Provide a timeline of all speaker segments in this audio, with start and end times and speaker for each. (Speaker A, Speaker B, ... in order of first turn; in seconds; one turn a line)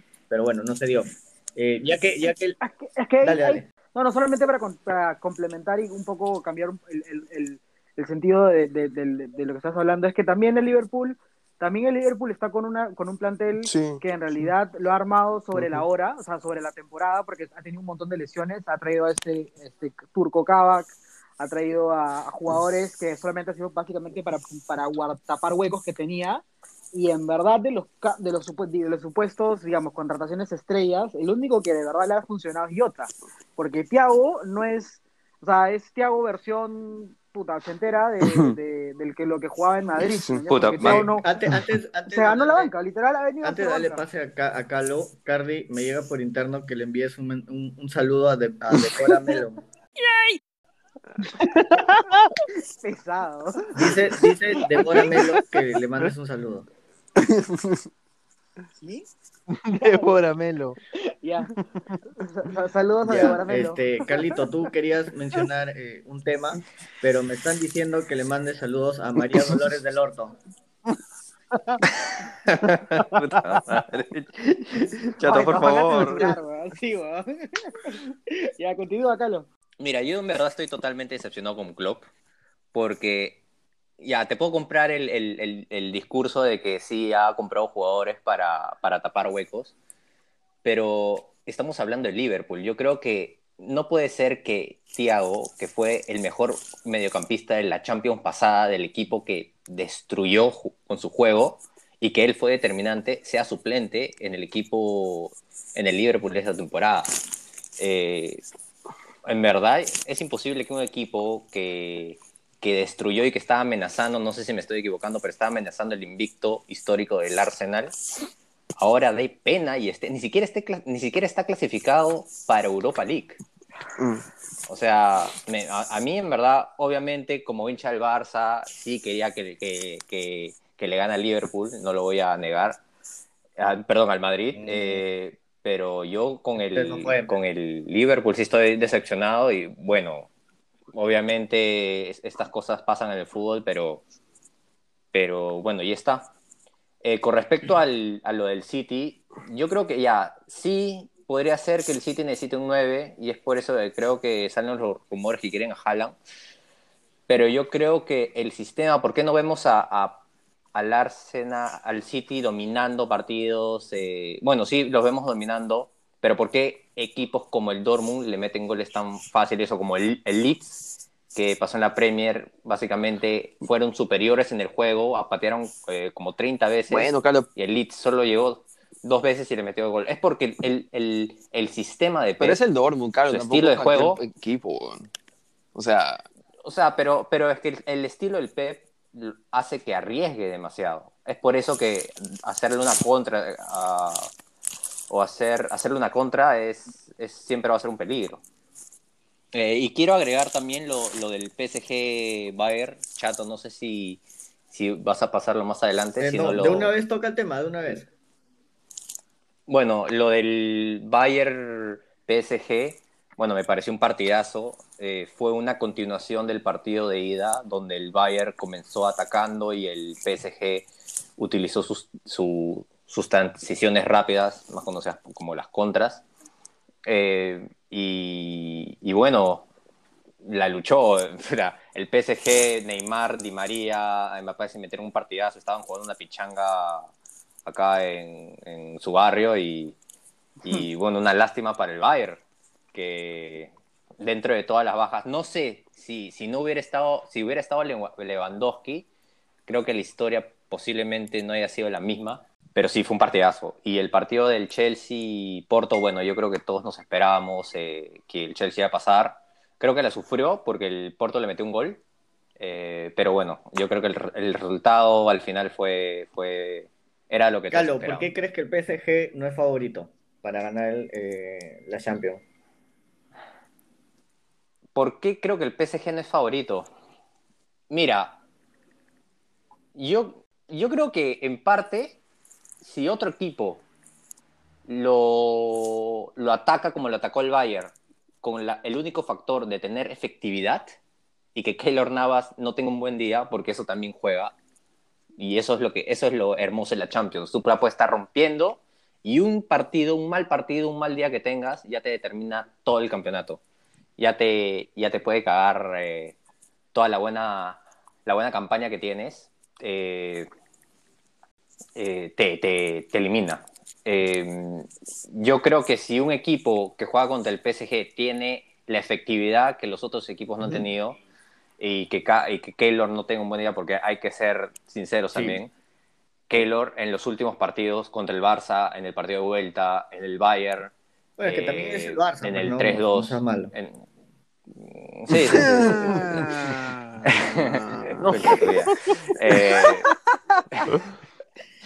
Speaker A: 0.3-2.6
Speaker B: 2.6-41.3
Speaker A: 3.2-3.7
Speaker C: 13.6-14.4
Speaker C: 15.5-15.8
Speaker C: 38.2-38.6
Speaker C: 40.0-40.4
Speaker D: 40.5-41.1
Speaker A: 40.8-42.7
Speaker B: 42.0-44.0
Speaker A: 43.4-49.6
Speaker E: 51.4-52.4
Speaker B: 52.8-53.7
Speaker A: 53.7-56.7
Speaker C: 57.2-57.9
Speaker B: 58.8-59.1
Speaker E: 59.5-60.8
Speaker B: 59.8-60.1
Speaker B: 61.2-61.5
Speaker E: 61.6-62.0
Speaker B: 62.2-63.9
Speaker A: 63.0-70.4
Speaker E: 71.5-71.8
Speaker D: 73.1-74.3
Speaker D: 75.2-76.2
Speaker B: 75.2-78.0
Speaker A: 75.3-76.2
Speaker C: 75.3-76.2
Speaker B: 78.6-79.5
Speaker D: 79.8-82.1
Speaker D: 82.7-83.4
Speaker D: 84.0-89.7
Speaker D: 90.6-107.1
Speaker D: 107.8-108.4
Speaker D: 109.2-117.9
Speaker D: 118.8-123.4
Speaker C: 124.0-124.2
Speaker D: 124.7-132.8
Speaker D: 133.6-140.3
Speaker A: 134.5-135.0
Speaker A: 136.6-137.3
Speaker D: 140.9-144.0
Speaker D: 145.1-146.3
Speaker D: 147.0-156.2
Speaker D: 157.3-160.2
Speaker D: 160.7-170.8
Speaker D: 171.3-182.6
Speaker C: 176.9-177.5
Speaker C: 182.4-185.1
Speaker D: 183.3-184.2
Speaker C: 185.7-186.2
Speaker D: 186.6-194.3
Speaker D: 195.1-198.4
Speaker D: 199.5-206.9
Speaker A: 206.2-208.1
Speaker D: 209.7-220.9
Speaker D: 221.4-226.2
Speaker D: 227.1-229.7
Speaker D: 230.4-237.1
Speaker D: 237.6-239.9
Speaker D: 240.6-242.4
Speaker D: 242.9-249.1
Speaker D: 249.7-262.0
Speaker D: 262.6-268.3
Speaker A: 267.7-272.4
Speaker D: 274.9-276.9
Speaker D: 277.9-278.4
Speaker D: 279.9-282.2
Speaker D: 282.8-283.8
Speaker D: 284.9-290.9
Speaker D: 291.5-294.5
Speaker D: 295.4-303.6
Speaker D: 304.2-306.4
Speaker D: 306.9-310.5
Speaker D: 311.9-321.2
Speaker D: 321.8-325.7
Speaker A: 325.3-325.6
Speaker D: 326.5-330.9
Speaker A: 331.4-333.7
Speaker D: 331.4-334.0
Speaker D: 334.8-336.5
Speaker C: 335.5-338.9
Speaker D: 337.2-340.1
Speaker C: 339.8-340.1